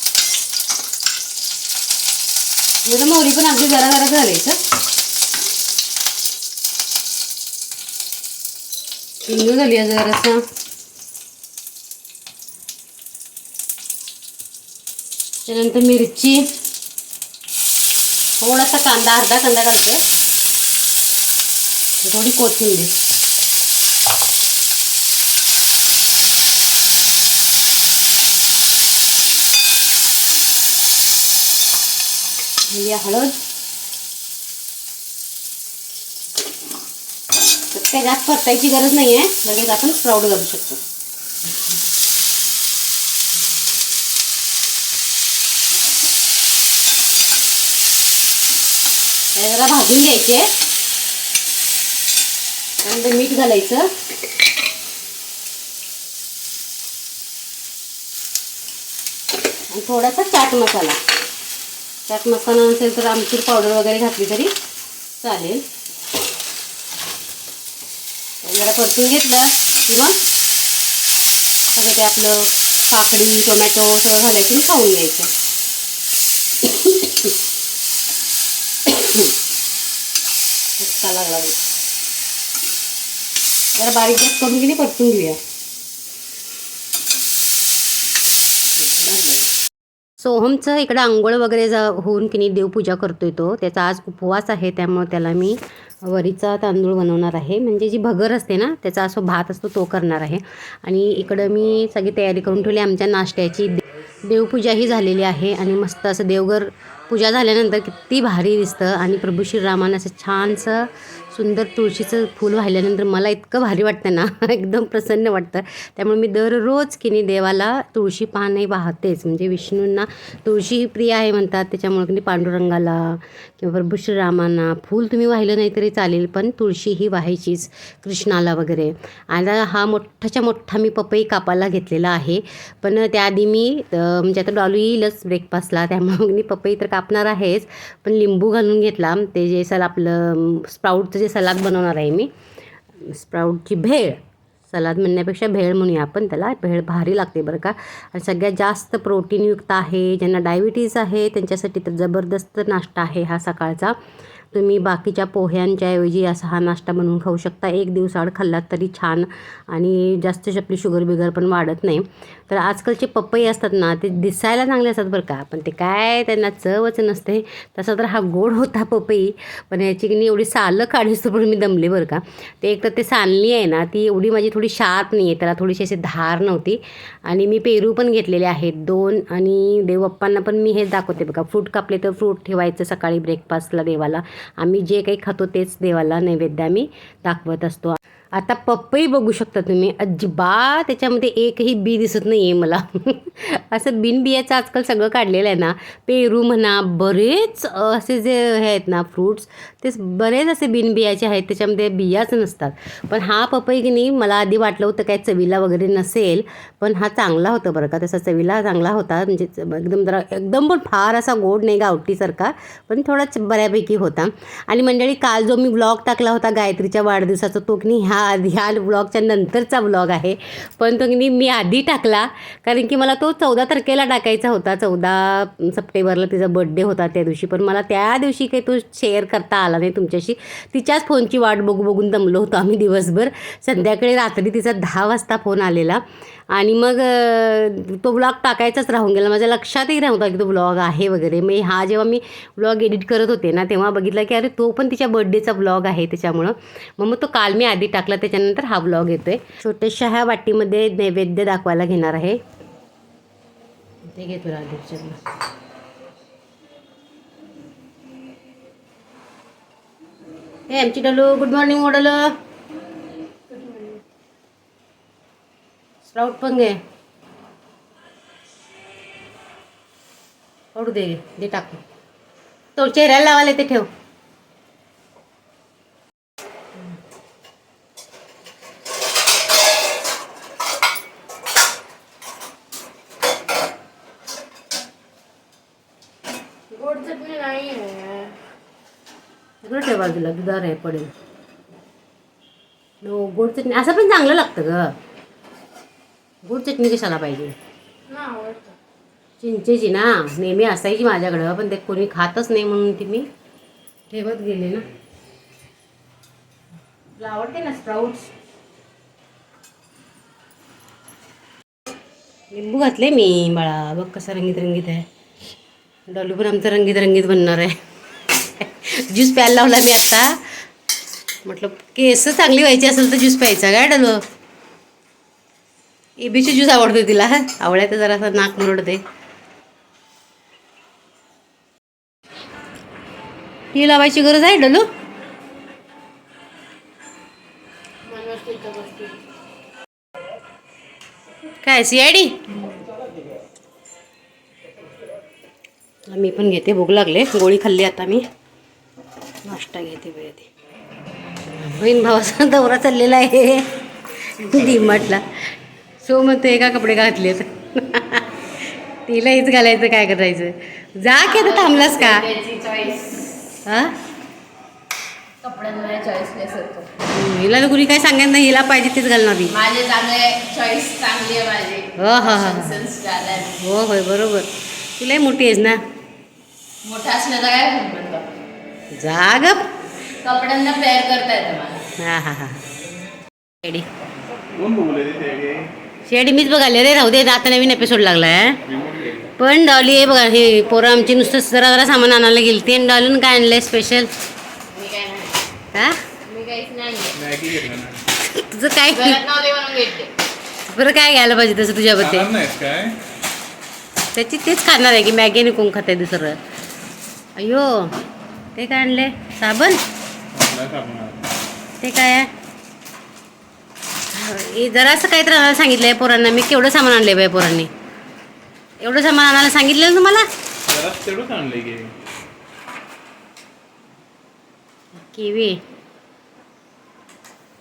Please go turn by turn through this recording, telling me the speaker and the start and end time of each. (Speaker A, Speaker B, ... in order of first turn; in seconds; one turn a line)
Speaker A: 2.9-4.6
Speaker A: 9.2-10.4
Speaker A: 15.5-16.5
Speaker A: 18.4-20.0
Speaker A: 22.0-23.0
Speaker A: 32.7-33.4
Speaker A: 37.7-40.8
Speaker A: 49.4-50.5
Speaker A: 52.8-53.9
Speaker A: 59.7-61.0
Speaker A: 62.1-64.5
Speaker A: 65.2-65.6
Speaker A: 68.4-70.2
Speaker A: 71.7-75.3
Speaker A: 76.6-77.3
Speaker A: 78.8-79.3
Speaker A: 80.8-81.6
Speaker A: 83.8-85.4
Speaker A: 88.8-89.5
Speaker A: 90.2-142.3
Speaker A: 143.0-154.0
Speaker A: 154.5-252.4
Speaker A: 254.1-255.2
Speaker A: 260.7-262.4
Speaker B: 263.5-264.0
Speaker A: 266.1-266.8
Speaker A: 270.8-271.8
Speaker A: 272.8-273.9
Speaker B: 286.7-288.4
Speaker A: 289.6-291.1
Speaker A: 293.0-294.9
Speaker A: 296.4-297.6
Speaker B: 298.1-298.8
Speaker A: 299.4-303.3
Speaker A: 304.1-304.9
Speaker A: 307.2-308.3
Speaker A: 312.5-315.1
Speaker A: 316.1-317.8
Speaker A: 318.4-320.4
Speaker A: 321.4-324.2
Speaker A: 326.2-329.0
Speaker A: 333.7-334.9
Speaker B: 338.1-339.2
Speaker A: 341.6-342.6
Speaker A: 346.1-348.2
Speaker A: 349.4-350.5
Speaker A: 351.4-362.3
Speaker B: 361.2-363.4
Speaker A: 363.7-364.0
Speaker B: 365.4-366.9
Speaker A: 367.0-369.6
Speaker B: 369.5-373.6
Speaker A: 372.0-375.8
Speaker B: 376.8-378.3
Speaker A: 378.9-379.7
Speaker B: 380.2-381.9
Speaker A: 381.9-382.7
Speaker A: 383.6-383.9
Speaker C: 384.4-385.7
Speaker A: 386.1-388.6
Speaker C: 388.7-389.3
Speaker A: 389.3-394.1
Speaker B: 394.7-395.4
Speaker A: 395.7-396.1
Speaker B: 396.2-397.2
Speaker C: 397.1-398.1
Speaker A: 398.2-399.3
Speaker B: 398.9-400.1
Speaker A: 400.7-402.3
Speaker C: 402.0-403.0
Speaker A: 404.1-406.4
Speaker A: 407.4-407.9
Speaker A: 408.6-409.8
Speaker C: 410.3-411.2
Speaker A: 411.8-412.3
Speaker A: 414.1-417.7
Speaker A: 418.8-420.3
Speaker C: 420.6-422.0
Speaker A: 424.9-425.6